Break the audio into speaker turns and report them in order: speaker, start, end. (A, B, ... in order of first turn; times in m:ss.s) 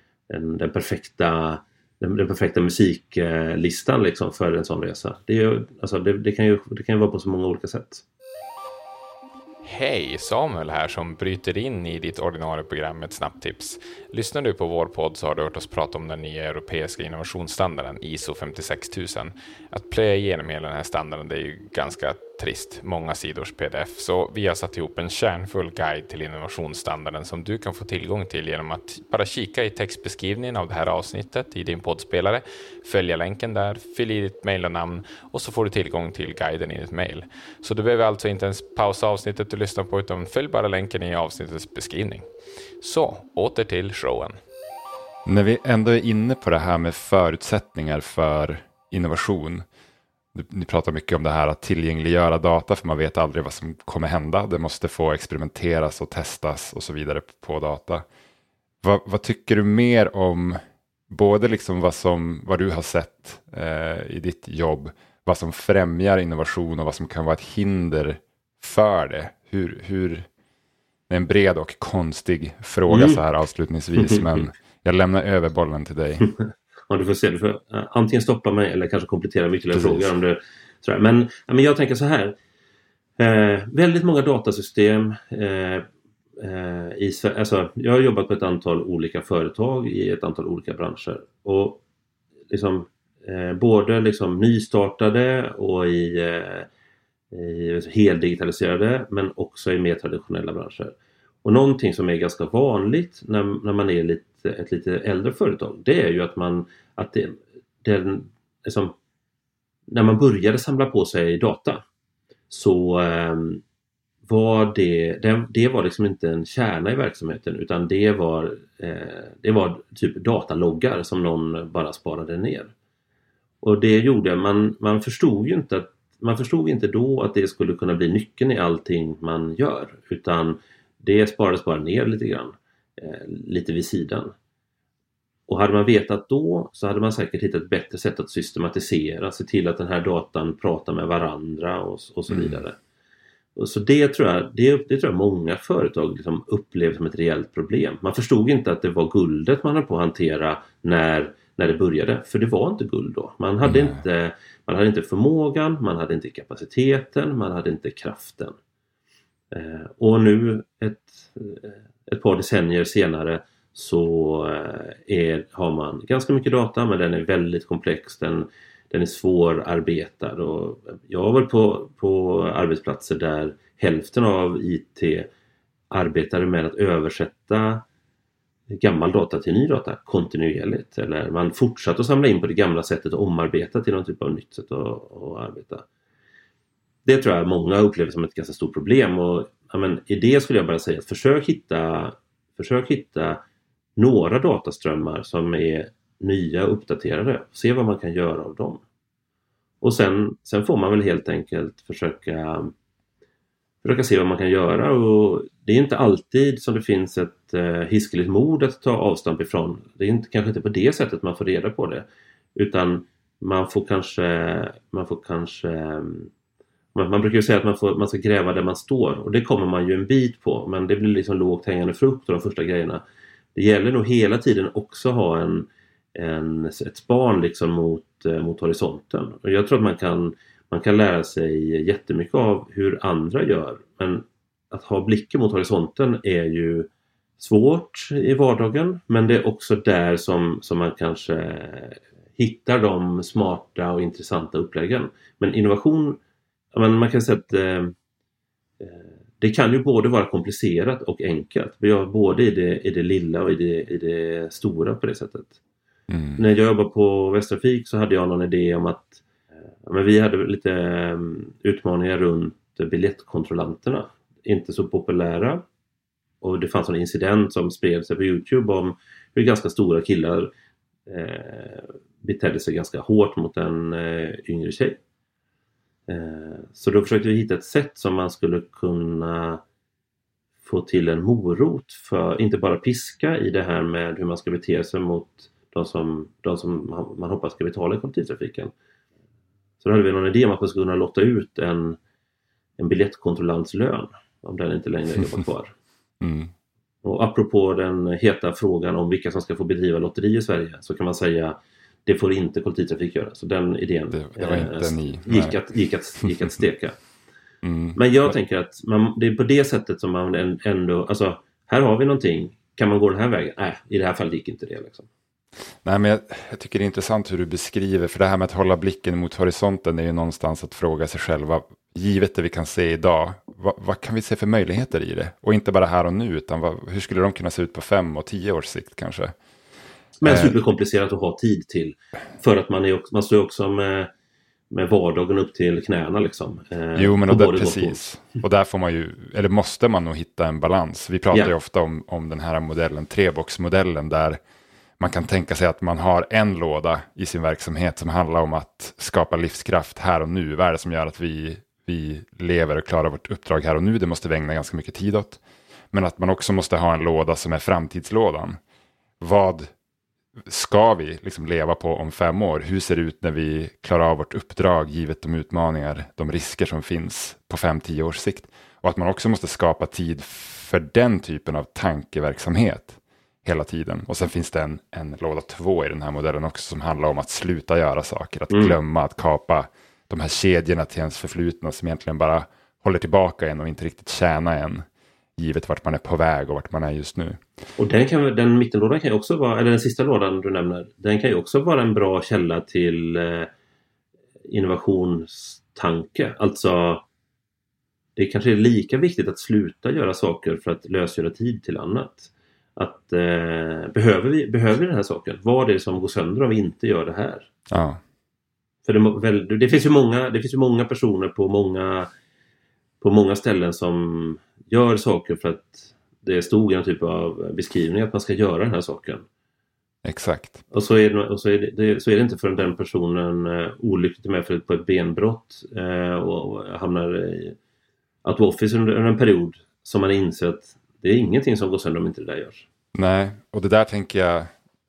0:00.3-0:08.0 A
0:09.6-0:42.3 B
0:42.8-0:44.4 B
0:45.2-0:49.6 C
0:50.3-0:58.0 C
0:58.8-1:10.3 C
1:11.1-1:16.2 C
1:12.9-1:13.2 A
1:14.0-1:14.5 A
1:16.2-1:22.4 A
1:19.7-1:20.1 C
1:23.2-1:25.8 A
1:26.4-1:31.8 A
1:32.5-1:36.7 A
1:37.3-1:48.9 A
1:49.9-1:51.8 A
1:52.5-1:53.6 A
1:54.2-2:02.7 A
2:03.6-2:14.3 A
2:15.5-2:22.8 A
2:22.3-2:22.6 C
2:23.6-2:38.6 A
2:33.6-2:34.0 C
2:39.5-2:55.3 A
2:55.9-2:57.8 A
2:58.7-3:05.8 A
3:07.0-3:13.4 A
3:14.0-3:18.8 A
3:19.8-3:22.7 A
3:23.8-3:36.3 A
3:36.9-3:43.0 A
3:43.5-4:06.2 A
4:06.7-4:07.9 A
4:08.8-4:15.6 A
4:16.1-4:16.4 C
4:16.4-4:19.2 A
4:19.8-4:25.6 A
4:26.4-4:30.5 A
4:31.1-4:35.0 A
4:36.1-4:39.6 A
4:40.6-4:48.7 A
4:49.8-4:52.0 A
4:52.8-4:55.8 A
4:56.2-4:56.5 C
4:57.0-5:07.0 A
5:04.1-5:05.6 C
5:06.2-5:06.5 C
5:07.6-5:08.3 C
5:07.9-5:15.1 A
5:15.8-5:29.3 C
5:30.2-5:34.1 A
5:30.2-5:30.6 C
5:34.7-5:38.0 A
5:37.0-5:44.4 C
5:45.0-5:55.4 C
5:55.9-5:58.6 C
5:59.2-5:59.7 C
6:00.4-6:24.8 C
6:18.5-6:18.8 A
6:25.4-6:27.4 C
6:27.8-6:33.5 A
6:34.5-6:37.0 A
6:38.2-6:47.5 A
6:47.7-6:48.0 C
6:48.8-6:52.1 A
6:53.0-6:59.2 A
7:00.0-7:00.6 C
7:00.7-7:07.6 A
7:08.2-7:12.6 A
7:12.9-7:14.5 C